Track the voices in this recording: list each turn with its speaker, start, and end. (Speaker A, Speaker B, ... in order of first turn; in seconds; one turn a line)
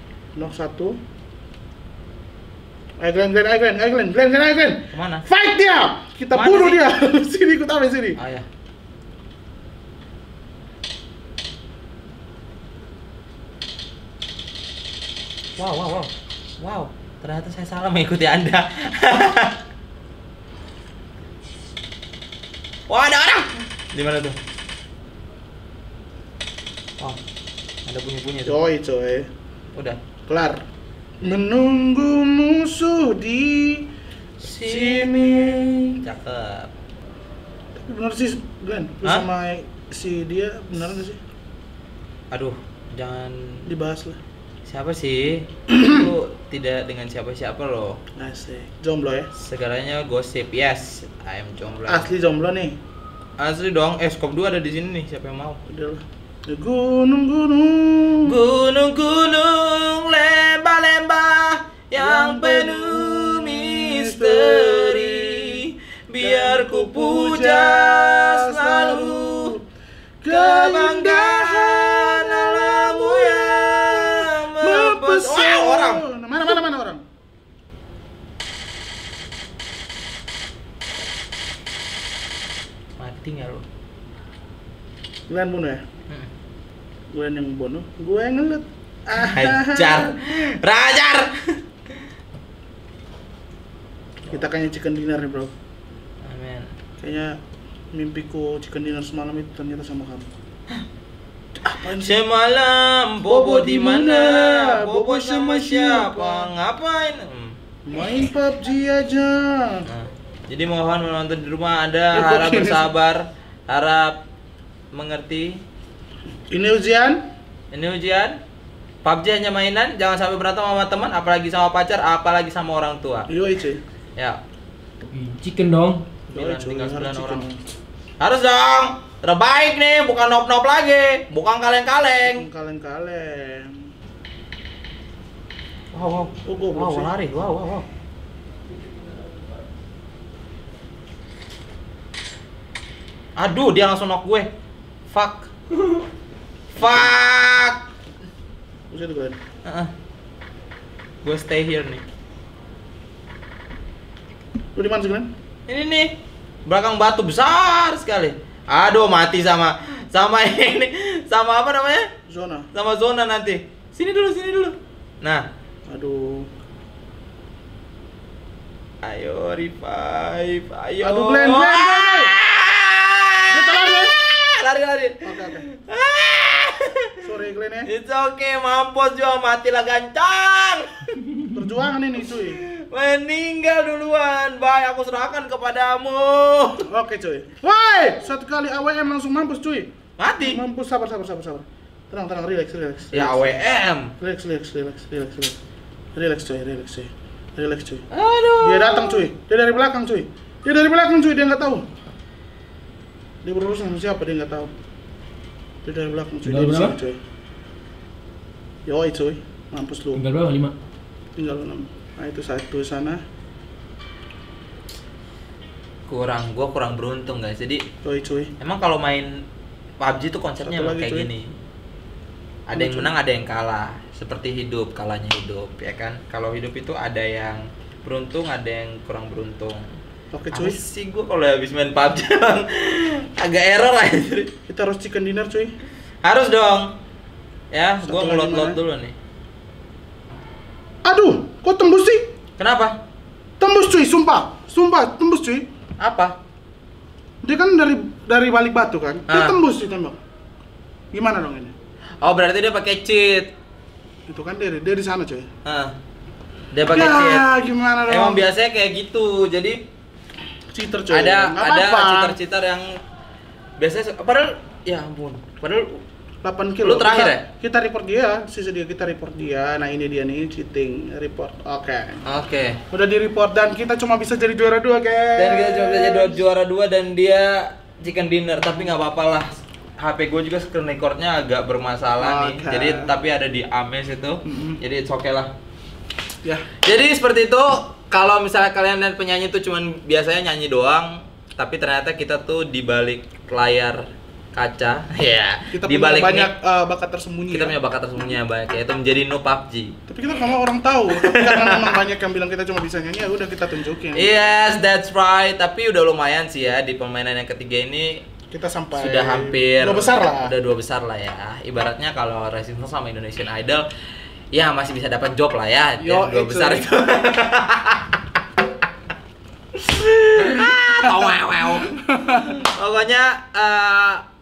Speaker A: 0.3-1.0
Speaker A: 3.0-8.2
Speaker B: 4.9-5.2
Speaker B: 6.3-6.8
Speaker B: 8.2-8.5
Speaker B: 15.6-19.6
Speaker B: 22.9-24.4
Speaker B: 27.9-28.6
Speaker A: 28.4-29.3
Speaker A: 30.3-30.6
Speaker A: 31.2-33.9
Speaker B: 34.4-36.7
Speaker A: 34.6-36.0
Speaker A: 37.8-41.2
Speaker B: 42.3-43.6
Speaker A: 43.7-44.2
Speaker B: 44.6-48.0
Speaker A: 48.2-49.3
Speaker B: 49.4-52.1
Speaker A: 51.9-52.7
Speaker B: 53.4-55.6
Speaker A: 55.6-58.4
Speaker B: 58.2-69.5
Speaker A: 62.0-65.6
Speaker A: 66.2-69.6
Speaker A: 70.2-73.5
Speaker B: 70.3-76.0
Speaker A: 74.6-77.0
Speaker B: 83.0-83.6
Speaker A: 85.3-85.8
Speaker A: 87.1-90.1
Speaker B: 89.1-91.3
Speaker A: 94.3-95.5
Speaker B: 96.2-96.7
Speaker A: 97.0-97.3
Speaker A: 97.9-100.3
Speaker A: 101.5-102.2
Speaker B: 101.9-107.6
Speaker A: 103.3-106.5
Speaker A: 107.8-109.9
Speaker B: 109.9-114.2
Speaker A: 112.1-112.9
Speaker B: 114.9-115.6
Speaker A: 116.5-117.2
Speaker B: 117.7-118.4
Speaker B: 119.0-123.3
Speaker A: 123.3-123.8
Speaker C: 125.1-126.0
Speaker B: 126.3-127.4
Speaker A: 126.3-127.6
Speaker B: 128.2-132.5
Speaker A: 132.2-133.8
Speaker B: 135.9-137.8
Speaker A: 136.4-137.2
Speaker B: 143.3-144.5
Speaker B: 145.1-145.5
Speaker B: 146.7-147.8
Speaker A: 148.9-149.4
Speaker B: 149.6-149.9
Speaker B: 151.2-152.0
Speaker A: 154.7-155.3
Speaker B: 155.7-156.1
Speaker B: 156.7-162.0
Speaker A: 162.3-162.7
Speaker B: 162.7-165.4
Speaker A: 165.9-166.5
Speaker B: 169.0-177.2
Speaker A: 171.0-172.3
Speaker A: 173.5-174.1
Speaker A: 175.2-175.6
Speaker A: 177.2-177.9
Speaker B: 177.8-181.2
Speaker A: 181.5-182.6
Speaker B: 182.3-186.8
Speaker A: 186.8-193.5
Speaker B: 190.2-190.6
Speaker B: 193.1-194.1
Speaker A: 194.2-195.6
Speaker A: 196.1-198.1
Speaker B: 198.1-199.3
Speaker A: 198.6-201.8
Speaker A: 203.4-204.7
Speaker A: 205.8-207.2
Speaker C: 206.4-207.0
Speaker A: 208.8-210.2
Speaker C: 210.1-210.7
Speaker A: 211.3-213.2
Speaker B: 216.1-217.8
Speaker A: 218.0-218.5
Speaker B: 218.6-219.3
Speaker B: 220.0-221.5
Speaker A: 220.6-221.3
Speaker B: 222.7-229.8
Speaker A: 222.7-223.1
Speaker A: 230.3-230.8
Speaker B: 230.5-234.5
Speaker A: 234.7-235.7
Speaker B: 236.2-236.9
Speaker B: 237.7-239.2
Speaker A: 238.0-238.8
Speaker A: 241.0-242.2
Speaker B: 242.6-242.9
Speaker A: 243.6-245.6
Speaker B: 246.0-246.3
Speaker A: 247.4-250.2
Speaker B: 249.3-249.6
Speaker A: 251.1-251.7
Speaker B: 252.2-253.5
Speaker A: 254.3-255.5
Speaker B: 255.6-255.9
Speaker B: 256.7-257.5
Speaker A: 256.9-258.4
Speaker B: 258.1-259.8
Speaker A: 260.7-262.4
Speaker B: 261.1-262.9
Speaker B: 263.8-266.0
Speaker A: 266.4-272.2
Speaker B: 266.8-267.4
Speaker B: 272.2-272.8
Speaker A: 272.9-276.4
Speaker B: 275.4-285.5
Speaker A: 282.2-283.1
Speaker A: 284.4-284.8
Speaker B: 286.8-294.0
Speaker B: 294.5-296.5
Speaker A: 295.7-297.7
Speaker B: 297.5-299.9
Speaker A: 300.1-304.4
Speaker B: 301.1-302.0
Speaker B: 304.1-308.2
Speaker A: 308.5-310.5
Speaker B: 308.9-313.8
Speaker B: 314.5-318.3
Speaker A: 316.0-316.9
Speaker B: 319.7-324.2
Speaker A: 321.0-322.6